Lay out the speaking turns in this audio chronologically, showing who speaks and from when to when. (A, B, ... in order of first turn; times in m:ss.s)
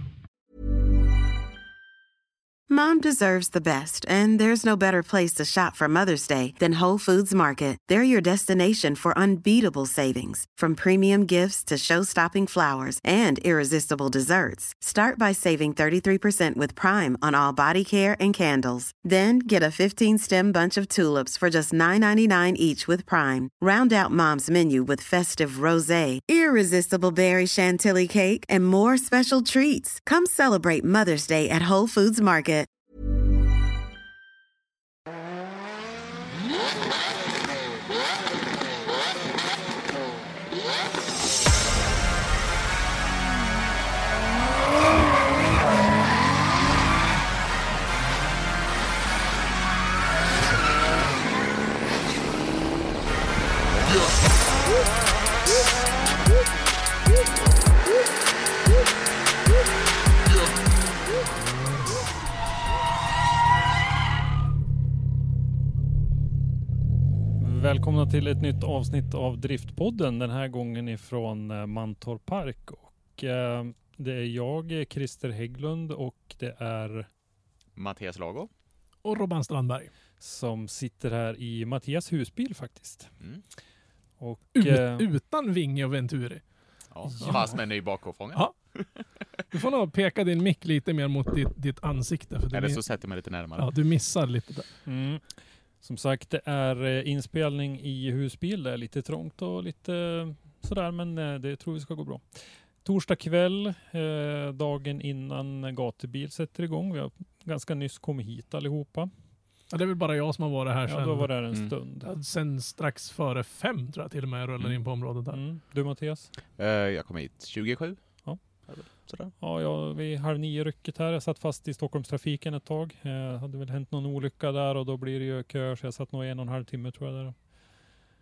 0:02.7-0:32.7 A
1:07.4-1:17.1 B
1:17.8-1:18.5 C
1:19.0-1:19.9 D
1:20.2-1:23.2 B
1:24.2-1:25.1 B
1:24.5-1:26.4 D
1:26.9-1:28.9 C
1:27.1-1:27.8 D
1:28.3-1:28.7 D
1:29.4-1:33.0 D
1:32.5-1:33.7 C
1:33.5-1:34.7 D
1:34.8-1:49.1 B
1:49.7-1:51.4 D
1:50.9-1:52.1 B
1:52.0-1:55.4 D
1:55.3-1:56.3 B
1:56.6-1:59.3 C
1:58.2-2:07.5 B